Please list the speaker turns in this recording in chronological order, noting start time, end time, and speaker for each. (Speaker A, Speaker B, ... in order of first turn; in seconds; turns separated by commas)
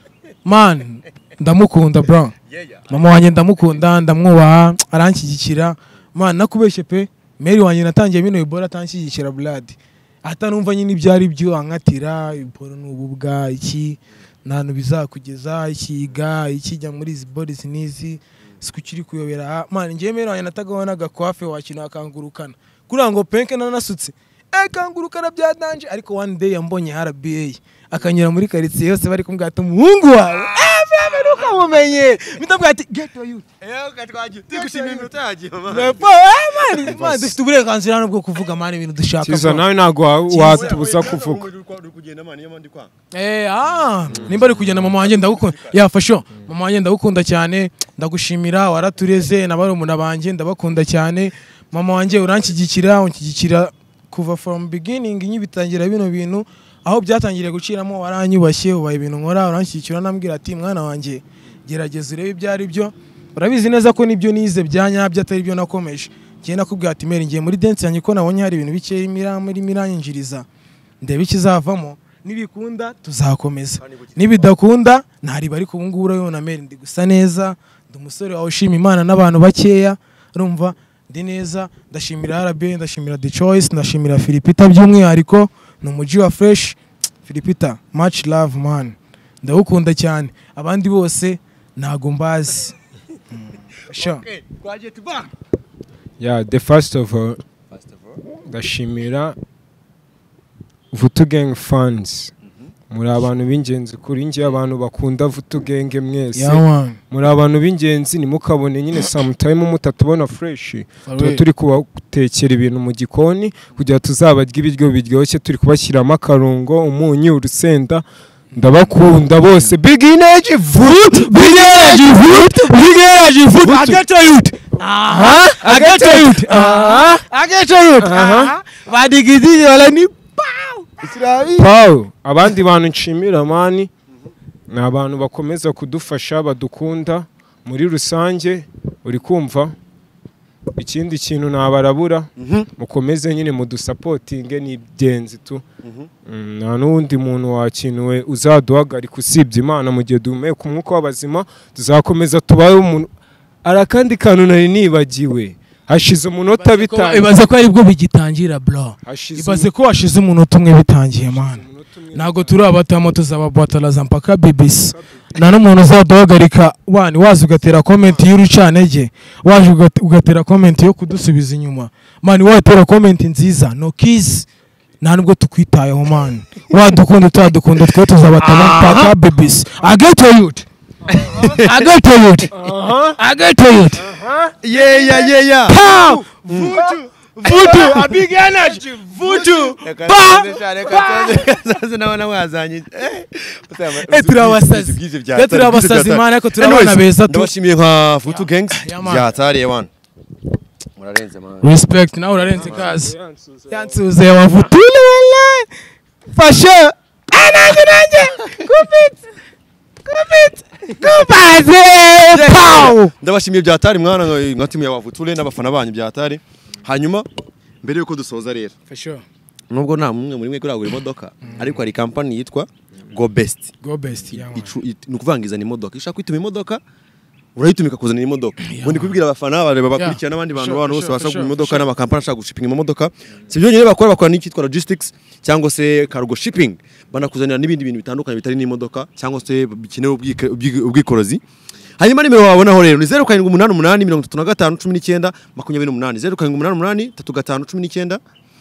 Speaker A: 0.5-2.3, Speaker B: 2.5-2.9, Speaker A: 2.9-33.5, Speaker B: 33.6-36.0, Speaker A: 34.5-35.1, Speaker A: 35.7-39.6, Speaker C: 36.8-37.3, Speaker C: 39.2-41.5, Speaker B: 40.3-42.9, Speaker A: 43.1-70.5, Speaker B: 44.1-45.8, Speaker A: 71.0-92.8, Speaker B: 73.8-74.5, Speaker A: 93.3-94.2, Speaker B: 93.9-95.3, Speaker C: 96.2-97.4, Speaker B: 97.7-98.2, Speaker C: 98.5-99.4, Speaker C: 100.9-102.3, Speaker C: 102.9-122.2, Speaker A: 106.3-107.0, Speaker A: 111.1-111.4, Speaker A: 120.7-131.6, Speaker C: 123.6-124.0, Speaker C: 125.1-127.2, Speaker C: 128.0-128.6, Speaker C: 131.6-133.9, Speaker C: 134.7-139.8, Speaker C: 140.8-145.6, Speaker B: 142.4-142.7, Speaker B: 145.8-146.1, Speaker C: 146.3-153.1, Speaker C: 153.6-157.3, Speaker A: 156.6-174.5, Speaker C: 159.1-159.7, Speaker C: 161.3-162.6, Speaker C: 164.9-165.2, Speaker A: 175.0-180.7, Speaker B: 178.4-179.2, Speaker C: 181.1-181.5, Speaker B: 181.4-181.9, Speaker A: 181.5-182.5, Speaker C: 182.5-183.2, Speaker A: 183.2-184.0, Speaker C: 184.0-184.5, Speaker B: 184.6-199.9, Speaker A: 184.7-191.5, Speaker A: 194.0-197.5, Speaker A: 198.3-199.3, Speaker B: 201.0-201.7, Speaker A: 201.6-203.1, Speaker C: 202.6-204.0, Speaker B: 202.6-202.8, Speaker A: 203.7-205.7, Speaker A: 206.3-209.2, Speaker A: 210.1-213.1, Speaker B: 212.3-217.3, Speaker B: 217.8-218.7, Speaker A: 218.9-219.2, Speaker B: 219.7-223.7, Speaker A: 223.8-224.7, Speaker B: 224.3-226.8, Speaker B: 227.6-241.4, Speaker A: 228.6-229.2, Speaker A: 230.0-231.8, Speaker B: 242.0-248.2